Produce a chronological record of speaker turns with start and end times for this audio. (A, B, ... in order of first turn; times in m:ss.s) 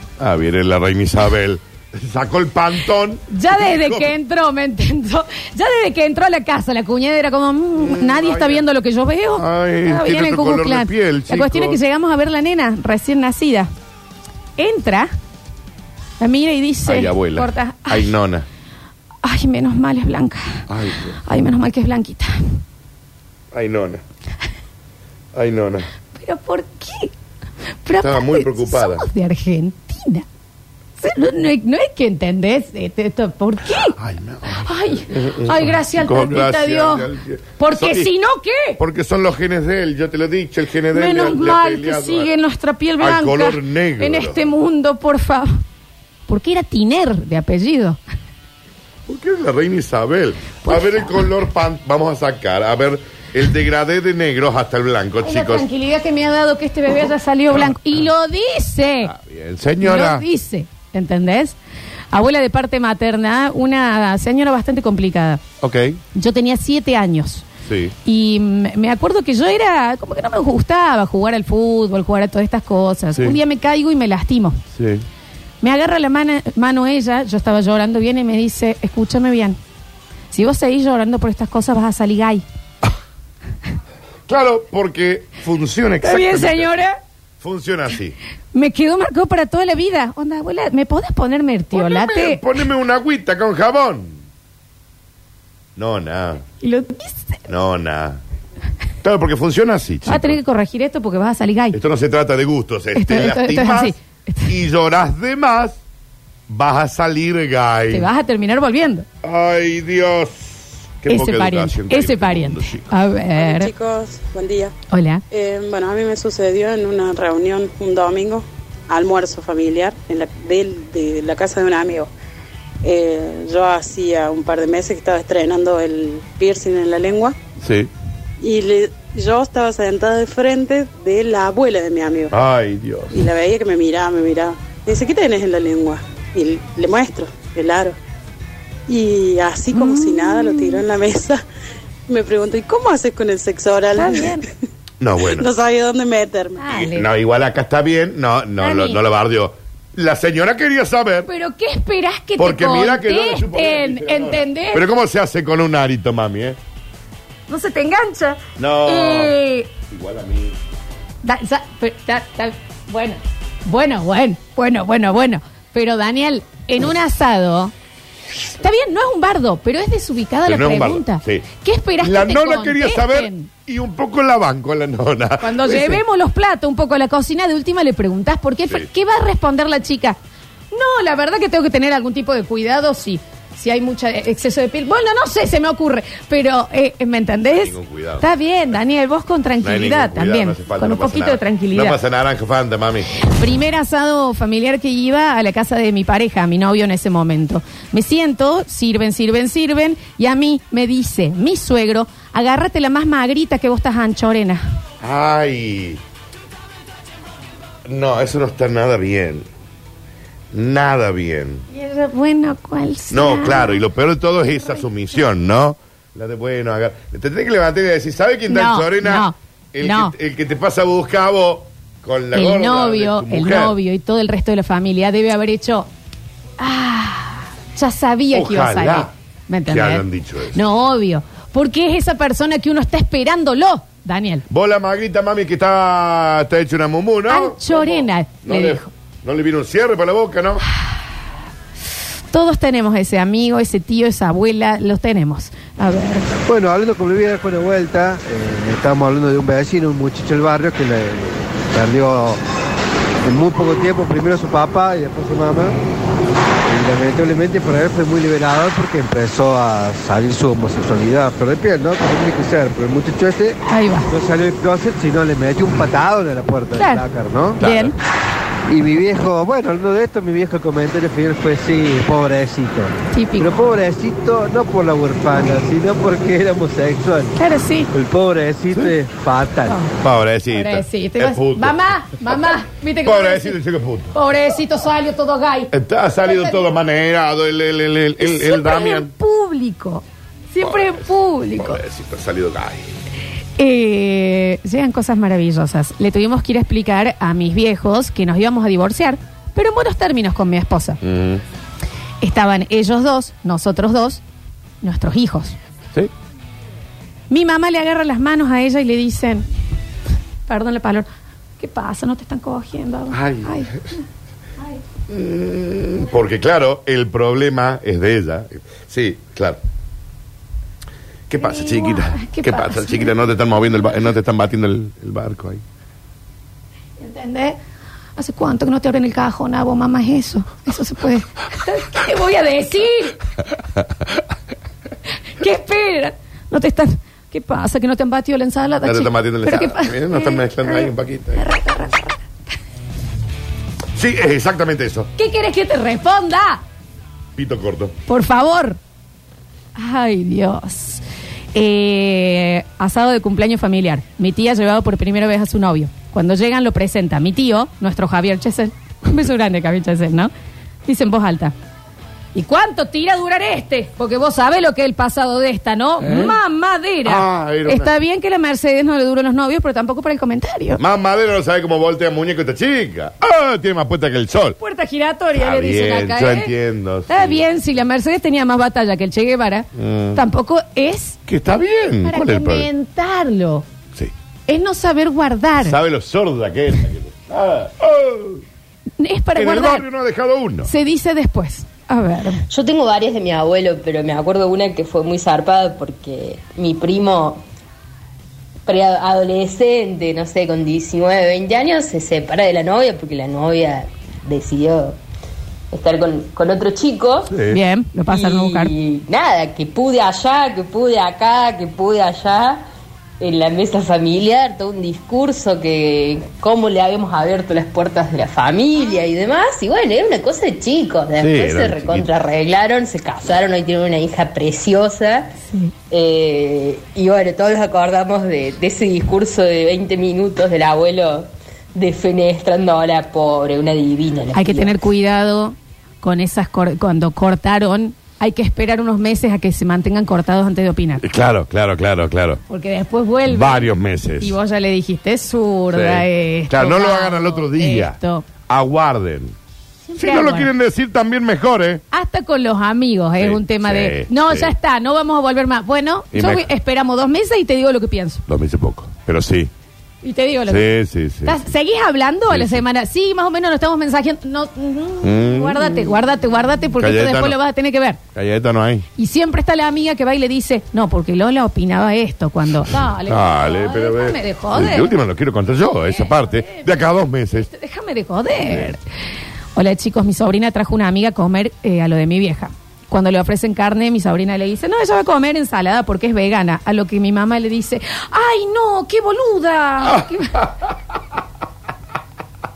0:00.2-0:04.1 A
0:03.3-0:13.7 B
0:07.8-0:08.6 A
0:09.4-0:11.8 A
0:14.6-0:15.1 B
0:16.2-0:18.1 B
0:16.8-0:18.4 A
0:19.2-0:20.6 B
0:20.7-0:21.1 A
0:21.2-0:22.3 B
0:23.5-0:24.0 A
0:25.3-0:25.8 A
0:26.2-0:27.1 B
0:27.8-0:30.2 B
0:28.0-0:29.0 A
0:31.0-0:34.0 B
0:34.0-0:38.1 A
0:34.6-0:38.8 B
0:38.8-0:42.3 A
0:40.9-0:45.5 B
0:43.0-0:44.4 A
0:46.3-0:48.0 B
0:49.1-0:55.6 A
0:50.6-0:51.2 B
0:55.2-0:59.1 B
0:59.0-1:00.2 A
0:59.8-1:01.6 B
1:02.1-1:05.4 B
1:05.6-1:06.0 A
1:06.1-1:07.4 B
1:07.7-1:07.9 A
1:08.0-1:14.6 B
1:14.8-1:15.0 A
1:15.6-1:19.6 B
1:20.3-1:22.4 B
1:24.3-1:26.8 A
1:26.0-1:27.0 B
1:27.4-1:28.1 A
1:28.5-1:32.4 B
1:31.7-1:34.2 A
1:35.8-1:36.4 A
1:36.6-1:37.4 B
1:37.5-1:38.2 A
1:39.0-1:40.3 A
1:40.0-1:41.8 B
1:41.7-1:43.9 A
1:42.9-1:44.5 B
1:44.5-1:45.8 A
1:46.5-1:48.0 A
1:47.9-1:49.0 B
1:49.2-1:52.9 A
1:51.1-1:53.7 B
1:53.4-1:54.7 C
1:54.9-1:55.2 B
1:55.3-2:02.1 C
2:02.8-2:07.3 C
2:07.6-2:07.9 A
2:08.4-2:12.3 C
2:12.3-2:13.1 A
2:13.1-2:18.0 C
2:18.9-2:21.4 C
2:19.7-2:20.8 B
2:22.1-2:24.4 C
2:23.9-2:24.4 B
2:25.0-2:25.5 A
2:25.3-2:26.6 C
2:26.6-2:27.1 B
2:26.7-2:31.3 A
2:28.6-2:29.0 B
2:31.3-2:34.8 B
2:32.4-2:36.6 A
2:37.5-2:39.7 B
2:38.6-2:39.3 A
2:39.9-2:40.6 A
2:41.2-2:47.7 B
2:48.6-2:53.5 B
2:50.5-2:51.4 A
2:52.0-2:56.0 A
2:55.4-3:00.2 B
3:00.7-3:12.0 B
3:07.5-3:08.2 A
3:09.6-3:13.1 A
3:13.2-3:24.6 B
3:25.0-3:26.0 A
3:27.8-3:29.4 A
3:30.5-3:31.6 A
3:31.7-3:33.8 B
3:33.1-3:43.7 A
3:34.5-3:34.9 B
3:38.5-3:40.1 B
3:42.3-3:45.9 B
3:46.6-3:54.4 B
3:48.3-3:49.1 A
3:49.7-3:50.6 A
3:54.5-4:00.6 A
3:57.3-3:58.9 B
4:02.3-4:06.2 B
4:06.4-4:12.4 D
4:13.2-4:15.8 D
4:16.6-4:27.6 D
4:23.7-4:24.1 B
4:26.7-4:27.0 B
4:27.6-4:27.9 B
4:27.6-4:27.9 A
4:28.7-4:37.3 D
4:33.1-4:33.6 B
4:37.4-4:37.9 B
4:37.9-4:39.8 D
4:40.0-4:41.7 A
4:40.5-4:43.6 B
4:43.0-4:44.1 A
4:44.1-4:45.7 B
4:45.7-4:49.1 A
4:46.2-4:46.6 B
4:48.2-4:51.8 B
4:50.6-4:51.0 A
4:51.6-4:52.9 A
4:53.6-5:01.0 B
5:01.0-5:01.4 A
5:02.2-5:04.2 B
5:04.8-5:05.6 B
5:07.3-5:09.4 B
5:10.5-5:11.1 B
5:11.6-5:13.7 B
5:13.1-5:13.5 A
5:15.1-5:19.6 A
5:21.3-5:25.6 A
5:21.4-5:23.1 B
5:27.0-5:27.6 B
5:28.2-5:33.2 B
5:35.4-5:42.2 B
5:38.8-5:41.4 A
5:44.0-5:45.1 A
5:45.2-5:46.6 B
5:47.4-5:47.9 A
5:48.1-5:48.8 B
5:49.8-5:51.0 B
5:51.5-6:00.3 B
6:00.8-6:01.5 B
6:02.3-6:10.8 B
6:07.0-6:07.9 A
6:10.8-6:14.5 A
6:14.6-6:16.5 B
6:15.4-6:17.4 A
6:17.1-6:21.2 B
6:19.8-6:20.2 A
6:21.3-6:22.7 A
6:22.0-6:23.7 B
6:24.5-6:25.8 B
6:25.6-6:28.4 A
6:29.0-6:29.8 B
6:29.4-6:30.7 A
6:30.6-6:32.4 B
6:32.5-6:37.4 E
6:38.6-6:45.0 E
6:45.7-6:47.3 E
6:47.5-6:48.7 B
6:48.1-6:52.6 E
6:53.2-7:05.3 E
7:01.2-7:02.0 A
7:05.9-7:14.8 E
7:14.3-7:21.0 B
7:21.0-7:22.4 A
7:22.5-7:28.2 B
7:23.3-7:24.3 A
7:25.7-7:27.9 A
7:28.5-7:29.3 A
7:29.9-7:30.5 B
7:30.0-7:31.8 A
7:31.9-7:38.2 B
7:33.2-7:34.5 A
7:36.1-7:36.4 A
7:38.3-7:39.5 A
7:40.0-7:40.6 B
7:40.5-7:41.3 A
7:41.2-7:48.0 B
7:42.3-7:42.6 A
7:45.0-7:45.5 A
7:46.8-7:47.3 A
7:48.1-7:48.8 A
7:49.0-7:54.9 B
7:53.1-7:57.4 A
7:55.9-7:56.7 B
7:57.3-7:58.8 B
7:59.6-8:10.4 B